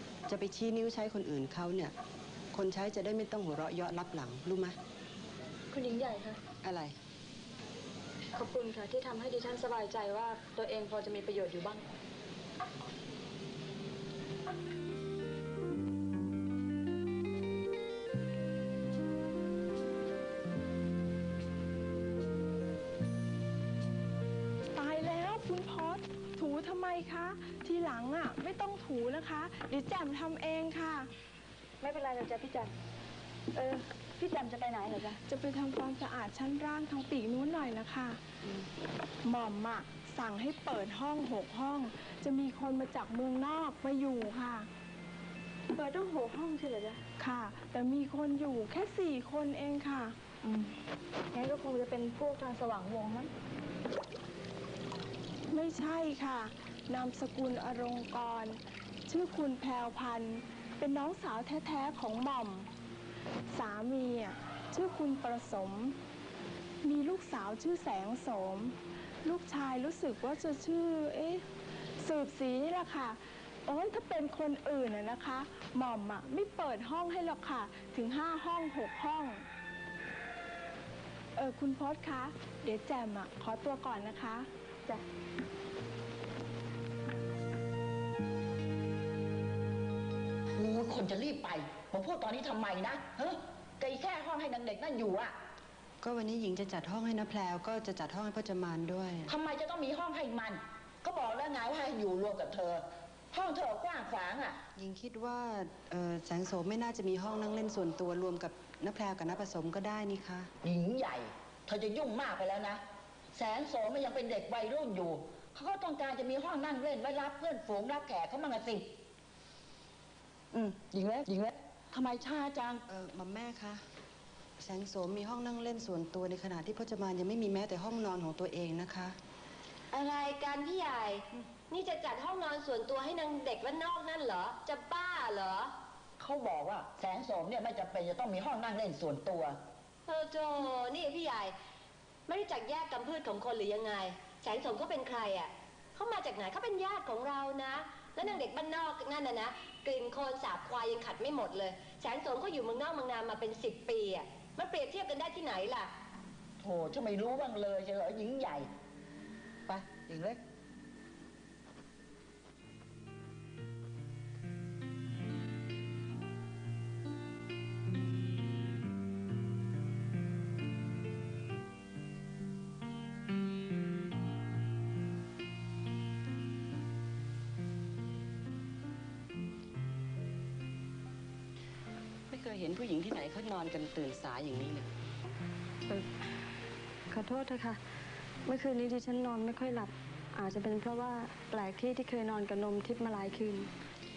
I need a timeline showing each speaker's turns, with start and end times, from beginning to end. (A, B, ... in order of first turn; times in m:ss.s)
0:00.3-0:02.0 A
0:02.5-0:04.8 A
0:05.7-0:06.4 B
0:06.6-0:07.0 A
0:08.4-0:11.9 B
0:24.8-0:31.1 C
0:31.8-0:32.7 B
0:33.5-0:35.2 B
0:35.3-0:38.2 C
0:39.2-0:44.7 C
0:45.8-0:47.0 B
0:47.1-0:50.2 C
0:50.4-0:50.8 B
0:51.3-0:53.3 B
0:55.5-1:02.7 C
1:03.5-1:06.0 C
1:06.8-1:11.4 C
1:12.0-1:19.4 C
1:21.4-1:24.5 C
1:30.6-1:35.3 D
1:36.0-1:39.3 A
1:39.3-1:44.6 D
1:44.8-1:50.5 A
1:50.6-1:52.8 D
1:53.3-1:58.9 D
2:00.5-2:02.8 D
2:02.9-2:03.8 A
2:04.6-2:09.1 A
2:09.9-2:15.7 E
2:16.2-2:19.6 D
2:20.1-2:21.5 E
2:22.3-2:35.9 E
2:36.6-2:38.7 D
2:39.7-2:40.4 D
3:02.3-3:04.9 A
3:07.1-3:07.8 B
3:08.4-3:13.7 B